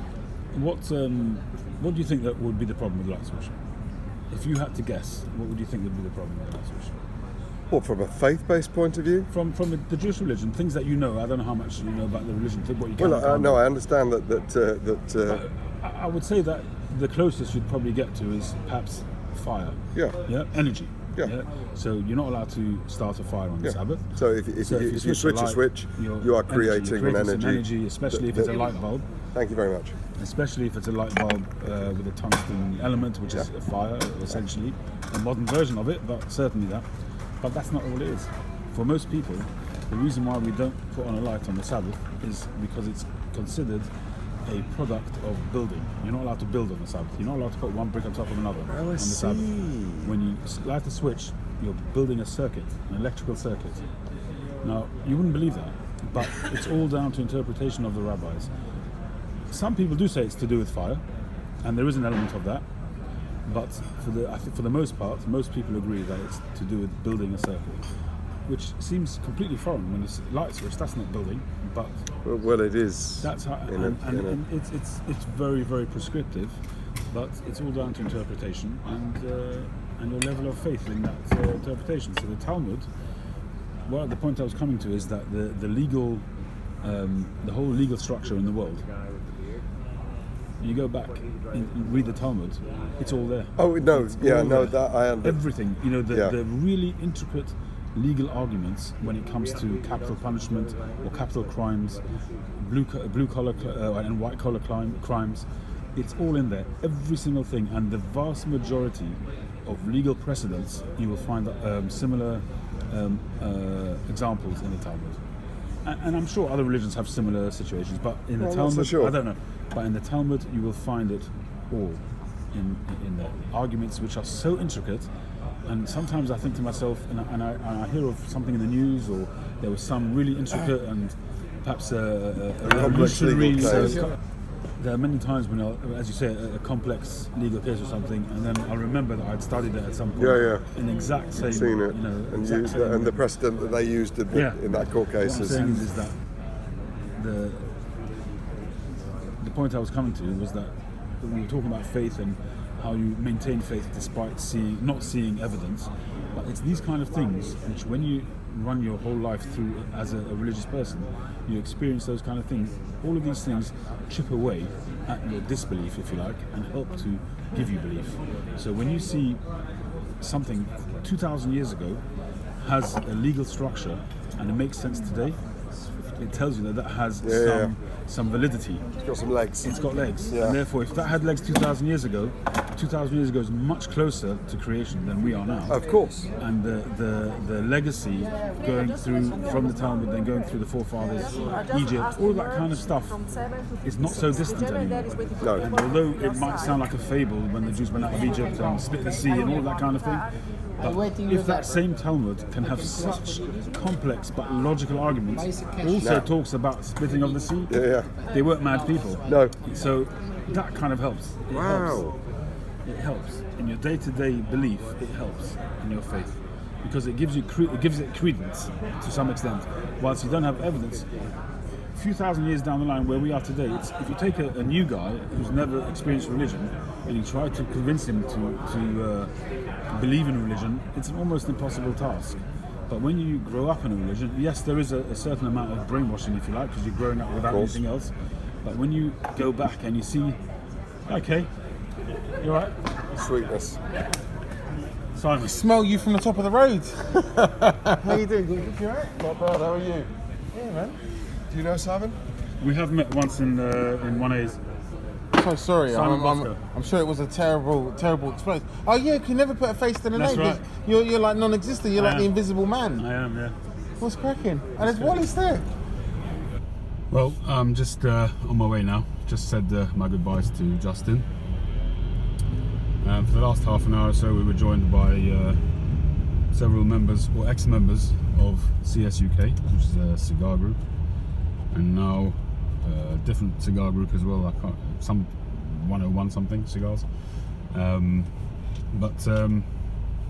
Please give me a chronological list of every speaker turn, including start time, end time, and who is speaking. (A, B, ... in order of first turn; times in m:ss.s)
0:00.5-0:03.5 A
0:04.3-0:07.0 A
0:07.7-0:09.3 B
0:09.3-0:13.6 A
0:13.0-0:15.4 B
0:15.3-0:24.1 A
0:23.6-0:28.7 B
0:24.6-0:29.1 A
0:29.3-0:29.9 B
0:30.2-0:36.9 A
0:37.4-0:43.9 A
0:44.4-0:53.8 A
0:48.7-0:50.1 B
0:54.6-0:58.5 A
0:59.5-1:01.0 A
1:01.6-1:02.6 A
1:03.4-1:07.8 A
1:08.5-1:12.0 A
1:12.2-1:14.4 B
1:13.2-1:22.9 A
1:23.9-1:26.3 A
1:26.8-1:28.8 A
1:30.6-1:42.0 A
1:33.6-1:35.4 B
1:42.6-1:55.2 A
1:55.8-2:02.0 A
1:58.4-1:59.1 B
2:02.5-2:05.1 A
2:05.6-2:14.1 A
2:12.6-2:14.0 B
2:14.8-2:23.2 A
2:20.1-2:20.7 B
2:21.3-2:25.8 B
2:24.3-2:26.2 A
2:27.2-2:27.7 A
2:29.4-2:49.4 A
2:50.2-2:52.0 A
2:52.6-2:55.4 A
2:56.2-2:58.8 A
2:57.2-2:57.7 B
2:59.0-3:00.6 B
2:59.6-3:05.8 A
3:05.7-3:06.2 B
3:06.4-3:32.1 A
3:15.4-3:15.7 B
3:20.8-3:21.6 C
3:25.4-3:26.1 C
3:26.0-3:26.3 B
3:27.7-3:28.1 B
3:28.4-3:29.4 C
3:29.2-3:29.5 B
3:31.5-3:32.1 B
3:32.8-3:41.1 A
3:41.9-3:49.3 A
3:49.9-4:00.4 A
3:57.4-3:57.8 B
4:01.0-4:01.5 A
4:02.4-4:02.7 A
4:03.1-4:03.8 B
4:05.1-4:05.7 A
4:05.5-4:07.4 C
4:08.0-4:10.1 B
4:08.0-4:08.6 C
4:10.5-4:11.0 C
4:11.5-4:12.2 B
4:12.6-4:14.6 A
4:15.3-4:23.0 C
4:15.8-4:16.6 A
4:20.1-4:20.6 A
4:21.9-4:22.4 A
4:22.9-4:23.6 A
4:24.0-4:25.6 C
4:24.8-4:25.2 A
4:27.1-4:31.2 A
4:33.0-4:35.6 A
4:36.5-4:41.0 A
4:41.7-4:50.0 A